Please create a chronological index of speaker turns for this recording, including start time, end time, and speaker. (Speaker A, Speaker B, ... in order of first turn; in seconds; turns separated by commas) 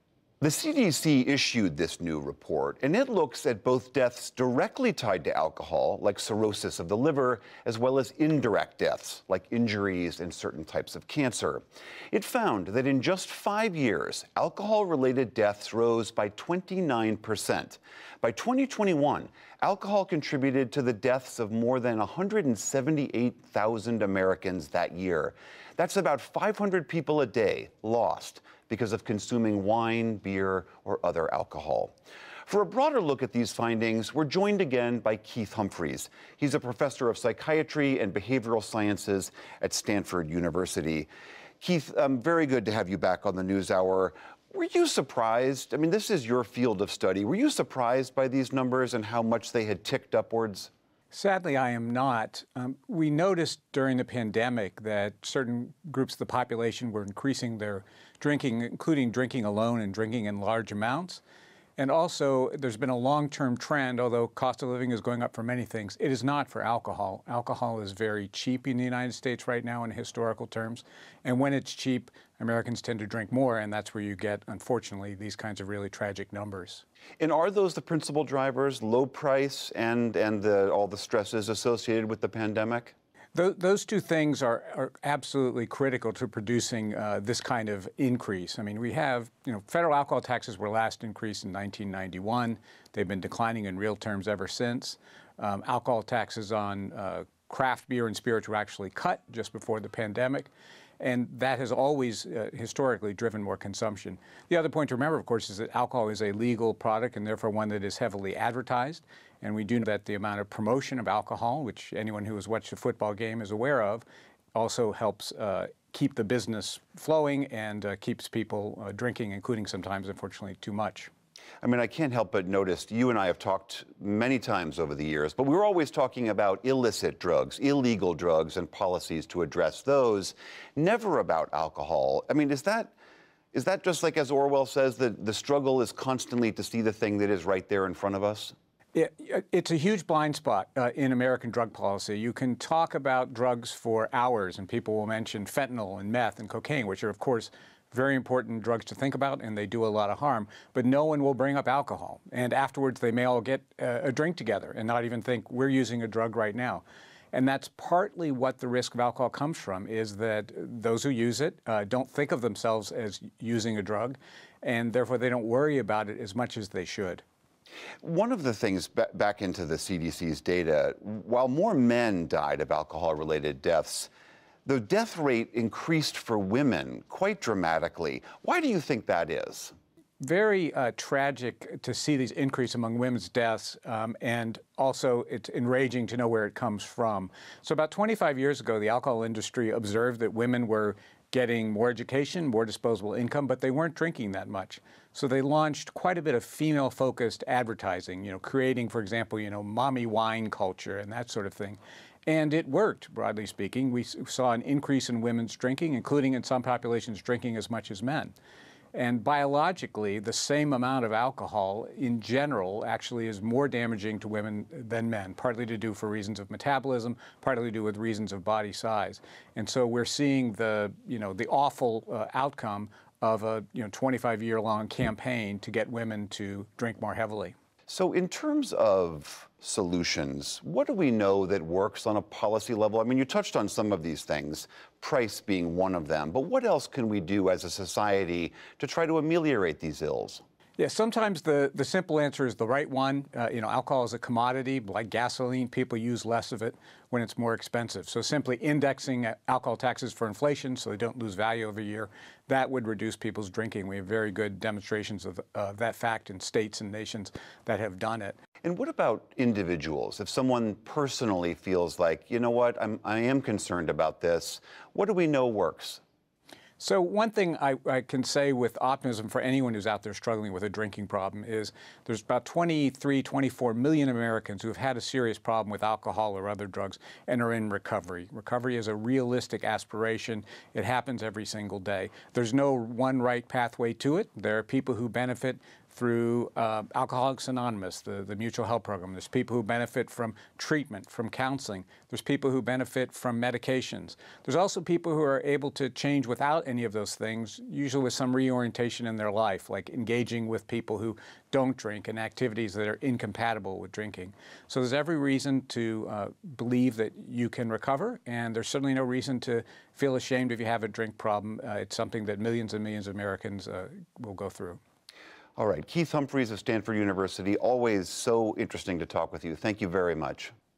Speaker A: 0.4-31.9, Speaker A: 32.5-41.1, Speaker A: 41.6-50.7, Speaker B: 51.1-61.2, Speaker B: 61.8-76.8, Speaker A: 77.2-82.9, Speaker B: 83.3-121.1, Speaker A: 121.6-132.9, Speaker A: 133.5-138.5, Speaker B: 138.9-167.2, Speaker A: 168.0-174.1, Speaker A: 174.7-179.7, Speaker B: 180.2-208.3, Speaker B: 208.9-227.6, Speaker A: 227.9-240.4, Speaker B: 240.8-258.4, Speaker A: 258.6-266.0, Speaker B: 266.8-314.8, Speaker A: 315.6-320.5